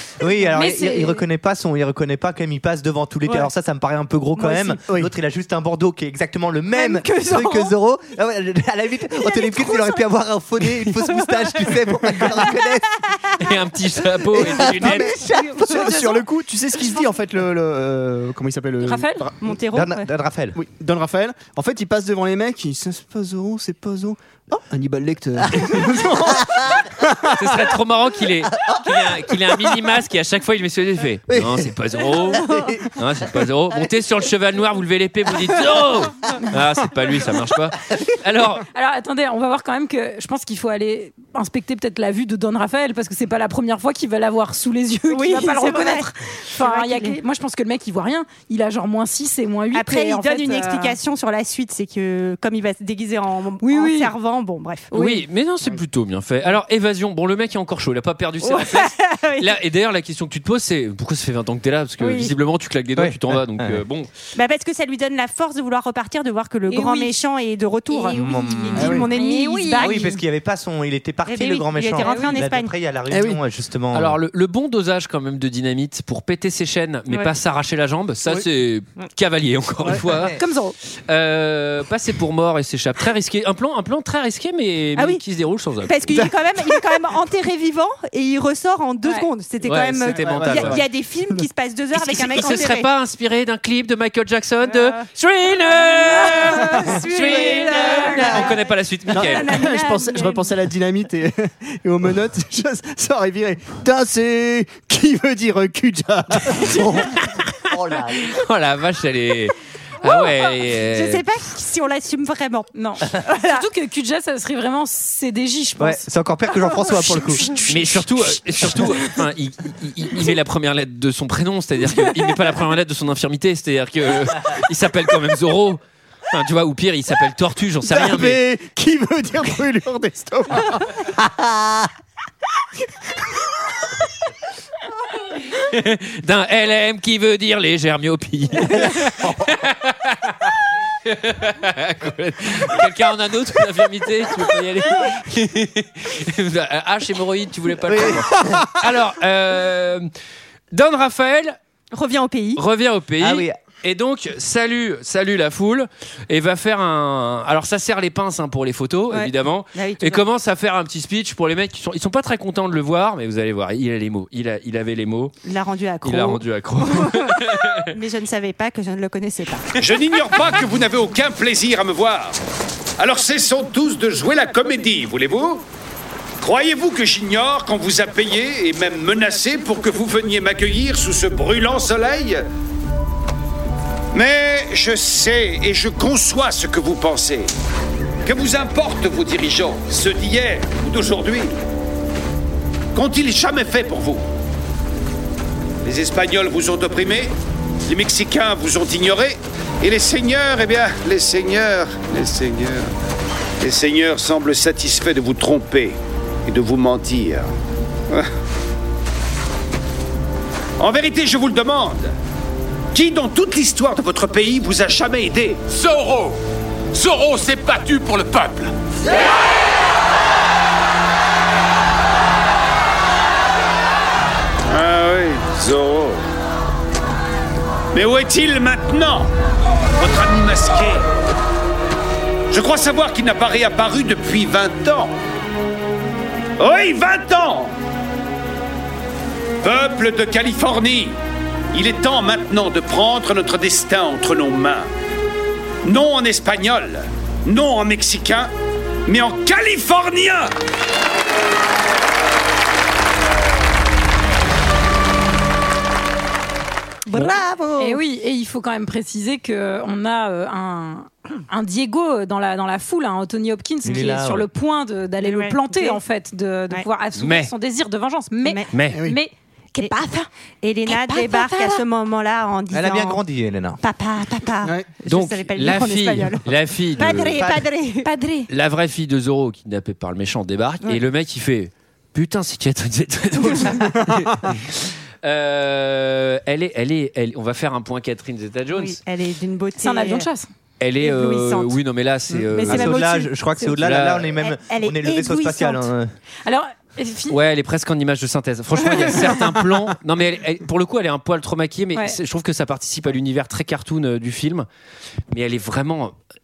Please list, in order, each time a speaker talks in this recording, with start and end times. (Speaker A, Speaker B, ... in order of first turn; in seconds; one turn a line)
Speaker A: 0.2-13.0
Speaker B: 0.5-1.2
Speaker C: 4.4-4.7
Speaker D: 4.8-5.1
Speaker B: 6.7-7.7
Speaker C: 9.4-9.7
Speaker C: 11.4-12.3
Speaker E: 13.4-15.1
Speaker A: 14.4-15.9
Speaker D: 14.5-19.3
Speaker B: 15.0-17.0
Speaker B: 18.8-19.3
Speaker C: 19.4-20.1
Speaker A: 19.7-20.6
Speaker D: 20.6-27.7
Speaker E: 25.6-26.6
Speaker E: 27.3-38.6
Speaker D: 31.3-32.8
Speaker B: 38.7-51.0
Speaker C: 45.1-47.2
Speaker C: 49.7-54.9
Speaker B: 53.6-54.1
Speaker B: 54.9-55.2
Speaker E: 54.9-64.1
Speaker C: 58.4-59.5
Speaker A: 63.0-63.8
Speaker C: 64.3-70.2
Speaker B: 66.7-67.2
Speaker B: 67.9-70.2
Speaker A: 68.1-69.1
Speaker D: 68.7-69.1
Speaker A: 69.8-74.2
Speaker C: 71.2-72.8
Speaker B: 72.0-72.5
Speaker D: 73.1-73.4
Speaker E: 73.9-80.4
Speaker B: 77.1-77.3
Speaker B: 80.4-80.7
Speaker E: 81.1-85.9
Speaker C: 85.0-85.2
Speaker C: 85.8-92.9
Speaker E: 89.6-90.8
Speaker D: 90.2-90.8
Speaker A: 90.4-90.7
Speaker E: 91.9-99.7
Speaker C: 95.8-100.5
Speaker B: 96.3-96.8
Speaker B: 97.4-98.4
Speaker D: 99.1-106.9
Speaker E: 106.4-107.3
Speaker A: 106.7-107.1
Speaker A: 107.7-108.3
Speaker E: 108.1-111.2
Speaker C: 110.0-113.7
Speaker B: 112.7-116.0
Speaker A: 115.8-117.6
Speaker E: 117.7-128.4
Speaker D: 127.8-130.9
Speaker E: 135.5-140.5
Speaker A: 138.9-139.5
Speaker E: 141.0-150.1
Speaker A: 147.9-148.6
Speaker E: 150.7-151.6
Speaker C: 151.9-152.6
Speaker E: 152.6-165.3
Speaker A: 153.2-153.6
Speaker C: 159.1-160.2
Speaker C: 165.4-169.7
Speaker E: 166.0-167.9
Speaker F: 169.8-172.3
Speaker F: 173.0-175.6
Speaker F: 176.4-182.4
Speaker F: 184.1-187.5
Speaker F: 188.2-191.6
Speaker F: 192.9-194.2
Speaker F: 195.8-197.3
Speaker F: 197.9-202.9
Speaker F: 203.6-207.5
Speaker F: 210.8-212.1
Speaker F: 212.9-216.3
Speaker F: 216.9-218.7
Speaker F: 224.7-226.2
Speaker F: 227.9-229.3
Speaker F: 230.0-231.1
Speaker F: 232.5-235.1
Speaker F: 236.6-237.7
Speaker F: 239.6-241.2
Speaker F: 241.7-244.9
Speaker F: 245.8-248.5
Speaker F: 249.1-250.5
Speaker C: 257.1-258.0
Speaker B: 257.8-270.3
Speaker A: 263.8-264.5
Speaker C: 265.2-266.0
Speaker E: 267.2-267.5
Speaker E: 268.7-269.0
Speaker D: 268.9-269.2
Speaker C: 270.6-273.2
Speaker B: 270.9-271.8
Speaker A: 272.7-273.8
Speaker C: 273.8-278.1
Speaker E: 275.1-277.3
Speaker A: 277.2-277.6
Speaker B: 278.0-278.5
Speaker E: 278.5-289.0
Speaker D: 283.9-284.4
Speaker C: 288.7-290.3
Speaker B: 289.8-290.5
Speaker E: 290.8-293.1
Speaker C: 291.0-291.8
Speaker C: 292.5-293.8
Speaker A: 292.6-296.1
Speaker E: 293.8-294.3
Speaker C: 294.3-295.9
Speaker B: 296.4-297.4
Speaker E: 297.3-304.7
Speaker E: 305.3-306.1